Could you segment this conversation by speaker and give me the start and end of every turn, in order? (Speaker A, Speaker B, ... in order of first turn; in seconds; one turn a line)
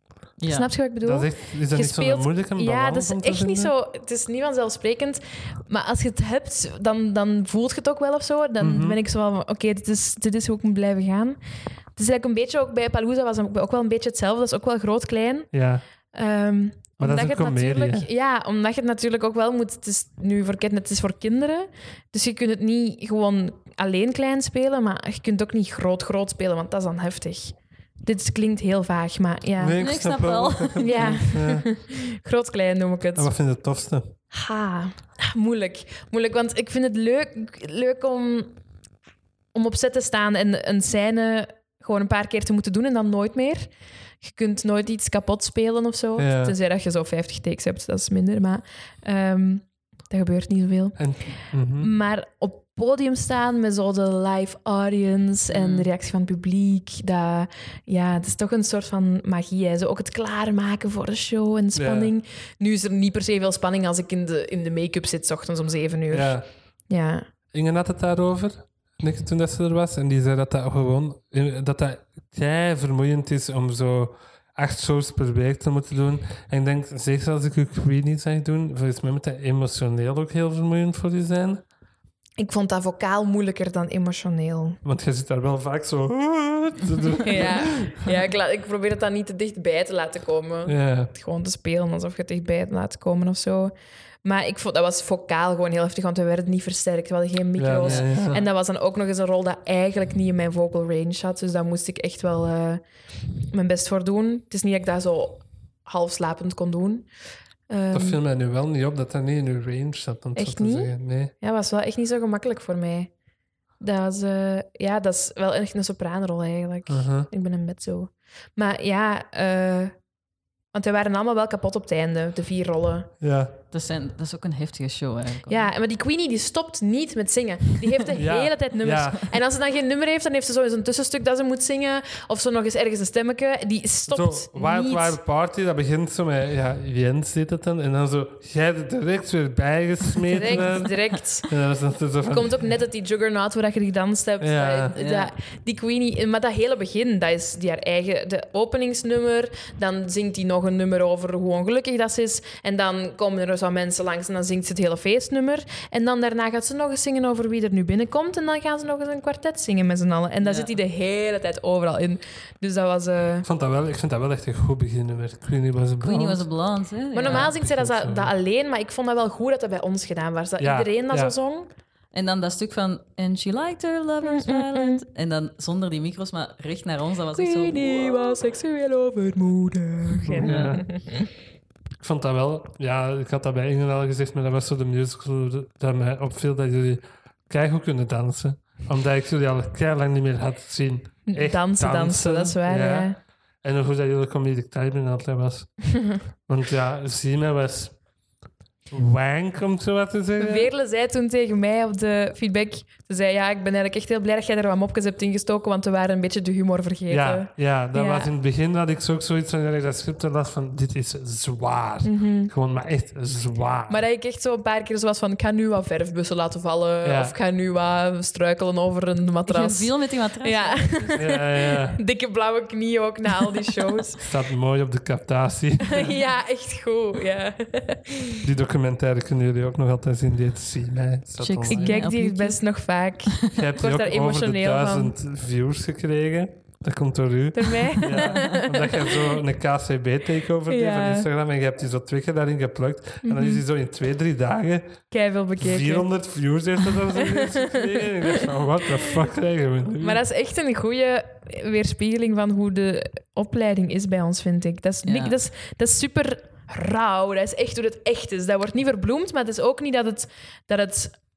Speaker A: 0.4-0.7
Speaker B: 0.4-11.4
Speaker C: 1.0-3.7
Speaker C: 8.6-9.0
Speaker B: 12.0-15.5
Speaker C: 15.5-15.8
Speaker B: 16.1-29.8
Speaker C: 17.0-18.1
Speaker C: 29.6-31.7
Speaker A: 29.8-31.5
Speaker B: 30.8-33.3
Speaker C: 33.1-34.1
Speaker B: 34.3-38.6
Speaker B: 39.5-43.7
Speaker B: 44.2-51.0
Speaker C: 46.2-46.6
Speaker C: 51.0-51.9
Speaker B: 51.8-67.3
Speaker A: 55.5-55.9
Speaker C: 61.8-62.1
Speaker C: 66.1-66.5
Speaker C: 67.5-81.6
Speaker B: 82.4-84.8
Speaker C: 84.8-88.1
Speaker B: 87.2-93.7
Speaker C: 90.7-91.1
Speaker B: 94.2-102.8
Speaker C: 97.6-98.4
Speaker B: 103.5-107.1
Speaker B: 107.7-108.2
Speaker C: 107.9-111.3
Speaker B: 110.3-113.1
Speaker B: 113.8-120.0
Speaker C: 116.9-117.3
Speaker B: 120.7-123.1
Speaker C: 123.2-123.5
Speaker A: 123.7-125.7
Speaker B: 125.5-135.2
Speaker C: 128.2-129.2
Speaker C: 134.1-142.6
Speaker B: 140.4-141.5
Speaker B: 142.3-163.5
Speaker C: 144.4-144.9
Speaker A: 145.0-145.3
Speaker A: 160.4-160.7
Speaker C: 163.4-166.5
Speaker A: 166.0-167.5
Speaker B: 167.1-171.7
Speaker C: 167.2-168.3
Speaker C: 170.6-171.3
Speaker A: 172.1-178.4
Speaker B: 174.2-175.0
Speaker B: 177.4-181.3
Speaker A: 180.3-180.8
Speaker C: 180.4-180.9
Speaker C: 182.0-195.9
Speaker B: 191.3-193.2
Speaker C: 196.5-198.0
Speaker C: 198.9-200.7
Speaker B: 200.4-208.3
Speaker C: 207.1-214.0
Speaker B: 212.0-212.5
Speaker B: 213.9-224.2
Speaker C: 217.0-217.4
Speaker A: 219.5-221.2
Speaker C: 221.2-222.0
Speaker C: 224.2-226.1
Speaker B: 225.9-228.4
Speaker C: 228.4-232.0
Speaker A: 231.4-232.6
Speaker B: 231.7-235.1
Speaker C: 233.5-245.0
Speaker B: 237.6-239.2
Speaker B: 240.7-241.3
Speaker B: 243.2-243.7
Speaker B: 245.1-246.1
Speaker C: 245.6-250.2
Speaker B: 247.2-248.5
Speaker B: 250.0-261.2
Speaker A: 255.1-255.3